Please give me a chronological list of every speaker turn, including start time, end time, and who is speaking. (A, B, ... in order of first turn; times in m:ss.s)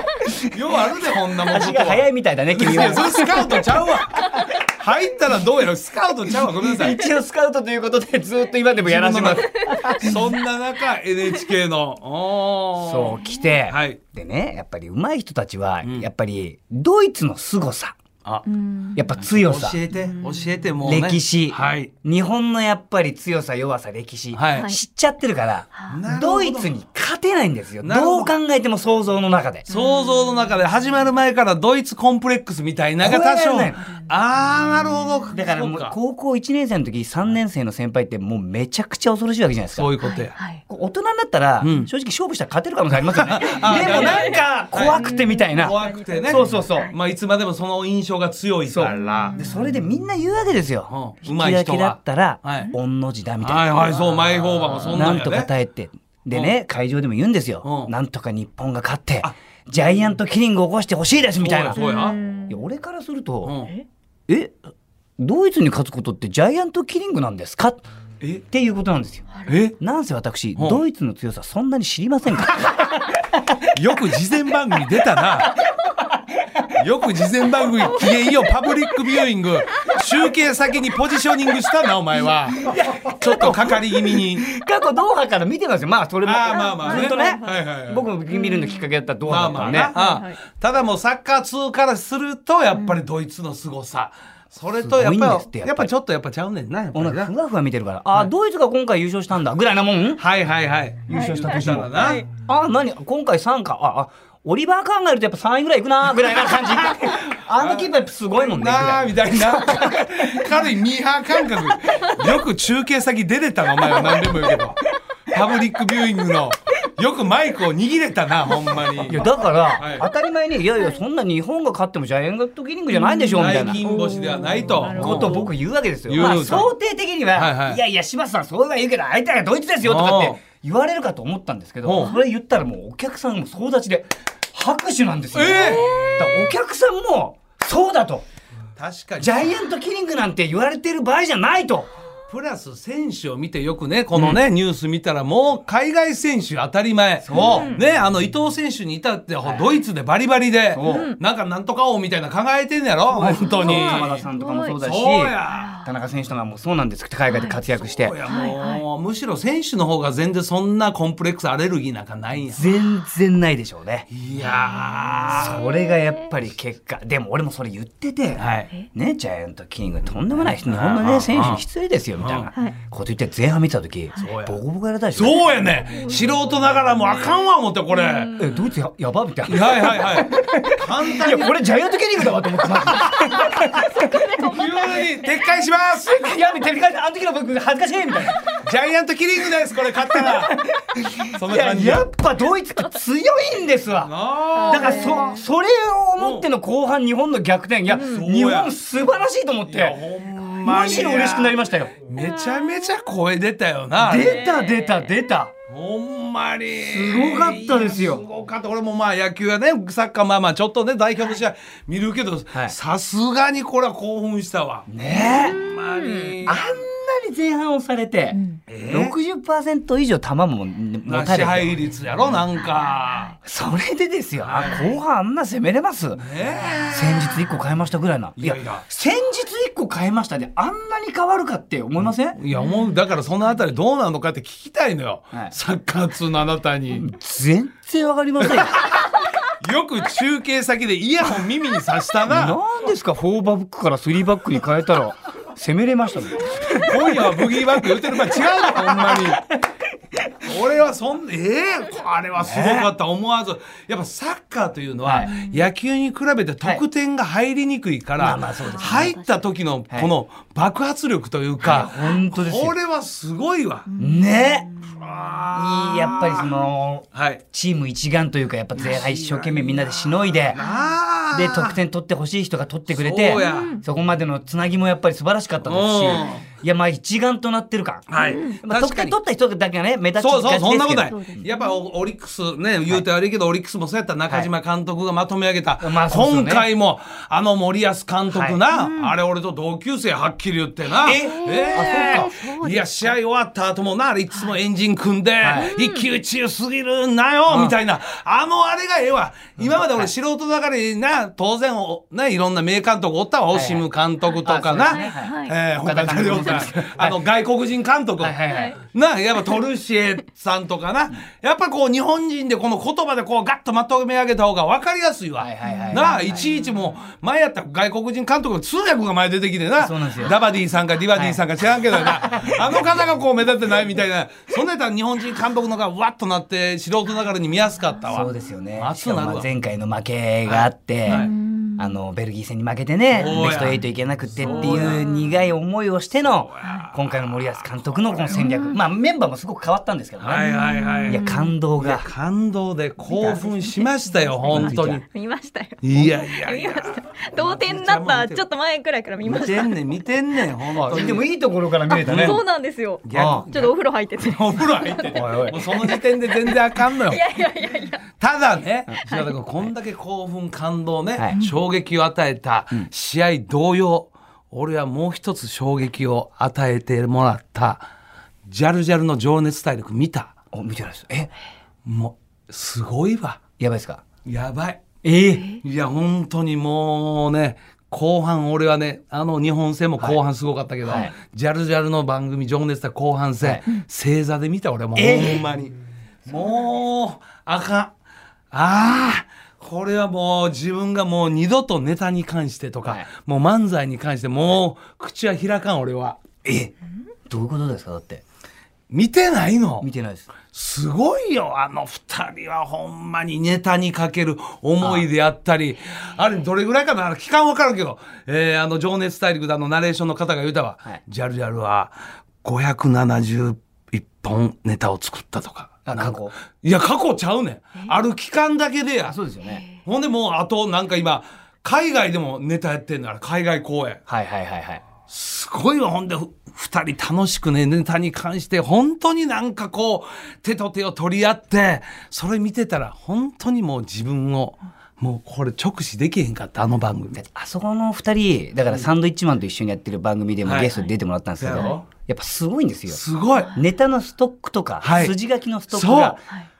0:00.5-0:07.0 A
0:01.5-0:03.6 B
0:06.4-0:10.2 B
0:08.8-0:14.0 A
0:12.8-0:18.0 B
0:13.2-0:13.5 C
0:18.5-0:19.0 C
0:18.9-0:19.8 B
0:19.2-0:21.9 A
0:20.0-0:20.6 C
0:20.8-0:29.7 B
0:24.3-0:24.7 A
0:24.5-0:24.8 C
0:25.7-0:26.0 C
0:25.9-0:26.8 A
0:27.8-0:28.3 A
0:29.7-0:30.3 C
0:29.7-0:35.9 A
0:33.0-0:33.9 B
0:34.6-0:35.3 C
0:34.7-0:39.9 B
0:39.7-0:40.4 A
0:40.0-0:40.6 C
0:40.7-0:46.9 B
0:41.6-0:41.9 A
0:43.1-0:49.4 A
0:43.7-0:46.9 C
0:48.6-1:01.8 B
0:48.9-0:49.6 C
0:50.9-0:52.7 A
0:53.4-0:55.5 A
0:56.3-0:56.5 A
0:57.6-0:57.9 A
1:01.4-1:02.2 A
1:01.7-1:02.6 C
1:02.5-1:03.6 B
1:03.4-1:03.7 A
1:04.3-1:04.6 B
1:05.2-1:07.8 B
1:08.5-1:13.7 B
1:09.4-1:09.8 A
1:10.6-1:10.8 A
1:13.7-1:15.6 A
1:14.9-1:16.7 B
1:16.8-1:24.5 A
1:22.5-1:29.9 B
1:26.2-1:28.1 A
1:26.5-1:27.6 C
1:28.3-1:28.9 C
1:29.2-1:37.3 A
1:29.9-1:30.4 C
1:34.7-1:35.9 B
1:36.9-1:40.2 B
1:40.2-1:42.2 A
1:41.1-1:50.6 B
1:41.1-1:42.2 C
1:46.8-2:00.1 A
1:58.9-2:03.8 B
2:02.9-2:05.5 C
2:03.4-2:05.5 A
2:04.6-2:18.2 B
2:06.0-2:06.7 A
2:07.3-2:07.8 A
2:09.8-2:10.4 A
2:11.8-2:12.1 A
2:15.3-2:16.1 A
2:15.5-2:16.3 C
2:18.8-2:19.5 A
2:19.2-2:21.9 B
2:22.3-2:34.3 A
2:24.1-2:24.4 B
2:27.2-2:27.7 B
2:27.4-2:27.8 C
2:29.4-2:29.8 B
2:30.7-2:31.1 B
2:30.9-2:31.2 C
2:33.1-2:38.2 B
2:33.4-2:34.8 C
2:34.8-2:35.7 A
2:35.5-2:35.9 C
2:37.3-2:37.6 C
2:37.8-2:42.7 A
2:38.2-2:38.8 C
2:42.5-2:44.1 B
2:44.1-2:45.6 A
2:44.4-2:46.2 C
2:45.3-2:55.4 B
2:48.4-2:48.7 A
2:50.2-2:51.6 A
2:52.2-2:52.5 A
2:54.2-2:54.6 A
2:55.1-2:58.3 A
2:55.9-2:56.2 C
2:57.2-2:58.6 C
2:58.4-3:04.3 B
2:59.5-3:01.6 A
3:02.9-3:06.3 A
3:03.8-3:05.2 C
3:06.0-3:08.4 B
3:08.6-3:10.6 A
3:10.1-3:14.1 B
3:11.3-3:12.1 A
3:14.0-3:15.3 A
3:14.5-3:15.4 C
3:14.6-3:20.0 B
3:16.2-3:16.4 A
3:18.0-3:18.7 A
3:19.6-3:24.5 A
3:20.6-3:22.0 B
3:22.2-3:22.9 C
3:24.0-3:25.5 B
3:24.2-3:25.1 C
3:25.7-3:36.6 A
3:26.8-3:28.2 B
3:34.9-3:35.6 B
3:35.5-3:36.4 C
3:36.4-3:41.8 B
3:38.3-3:38.6 C
3:38.7-3:39.2 A
3:41.0-3:43.3 A
3:42.6-3:43.4 C
3:43.4-3:46.2 B
3:44.4-3:44.8 A
3:44.7-3:45.0 C
3:46.1-3:47.3 A
3:46.6-3:47.0 C
3:46.9-3:52.4 B
3:48.4-3:48.8 A
3:52.4-3:57.1 A
3:52.5-3:53.0 C
3:56.9-3:58.8 B
3:58.4-4:02.6 A
4:02.2-4:10.5 B
4:06.8-4:09.4 A
4:10.4-4:23.9 A
4:12.4-4:12.9 B
4:15.0-4:15.4 B
4:18.2-4:19.2 B
4:18.5-4:19.4 C
4:21.6-4:22.7 B
4:23.9-4:25.4 C
4:24.0-4:24.7 B
4:24.8-4:26.5 A
4:25.5-4:30.6 B
4:27.1-4:27.4 A
4:28.8-4:31.8 A
4:30.6-4:30.9 C
4:31.3-4:41.4 B
4:32.9-4:33.8 A
4:33.3-4:33.8 C
4:35.6-4:36.4 A
4:38.1-4:39.2 A
4:38.2-4:38.6 C
4:40.2-5:29.5 A
4:41.1-4:41.8 C
4:45.8-4:46.7 B
4:48.3-4:48.6 B
4:48.7-4:49.1 C
4:51.0-4:52.4 B
4:51.0-4:53.1 C
4:55.4-4:55.7 B
4:55.5-4:56.1 C
4:57.5-4:57.8 B
4:59.6-5:00.1 B
5:03.5-5:03.8 B
5:04.2-5:05.6 C
5:04.4-5:07.2 B
5:08.2-5:08.8 B
5:08.4-5:08.8 C
5:15.4-5:16.4 B
5:15.6-5:16.2 C
5:19.8-5:20.4 B
5:21.1-5:21.4 B
5:22.0-5:22.6 B
5:28.1-5:40.5 B
5:30.4-5:31.3 A
5:31.0-5:31.9 C
5:33.1-5:33.8 A
5:34.4-5:35.0 A
5:34.4-5:35.3 C
5:36.2-5:38.5 A
5:36.6-5:36.9 C
5:38.3-5:38.8 C
5:40.2-5:45.0 A
5:40.4-5:41.6 C
5:41.0-5:42.1 B
5:43.1-5:49.8 C
5:44.5-5:45.0 B
5:45.8-5:48.4 A
5:49.2-5:51.2 A
5:50.8-5:52.4 B
5:51.9-5:58.0 C
5:52.0-5:52.4 A
5:53.0-5:57.2 A
5:53.1-5:53.4 B
5:55.1-5:55.6 B
5:58.1-6:07.9 A
5:59.1-5:59.4 C
6:08.4-6:10.4 A
6:10.5-6:11.3 B
6:11.8-6:13.4 A
6:13.6-6:14.0 B
6:14.2-6:14.9 A
6:15.0-6:15.5 B
6:15.6-6:27.9 A
6:20.9-6:21.1 B
6:25.0-6:25.4 B
6:28.5-6:36.2 A
6:36.4-6:36.7 B
6:37.3-6:38.2 B
6:38.9-6:39.9 A
6:39.8-6:40.3 B
6:40.5-6:59.2 A
6:44.8-6:45.0 B
6:55.8-6:56.3 B
6:59.1-6:59.6 B
6:59.4-6:59.8 C
6:59.8-7:04.0 A
7:04.1-7:04.8 B
7:05.1-7:17.2 A
7:17.1-7:23.0 B
7:20.4-7:20.7 A
7:21.4-7:21.8 A
7:22.9-7:23.6 A
7:23.5-7:26.2 B
7:24.8-7:25.1 A
7:25.7-7:26.2 A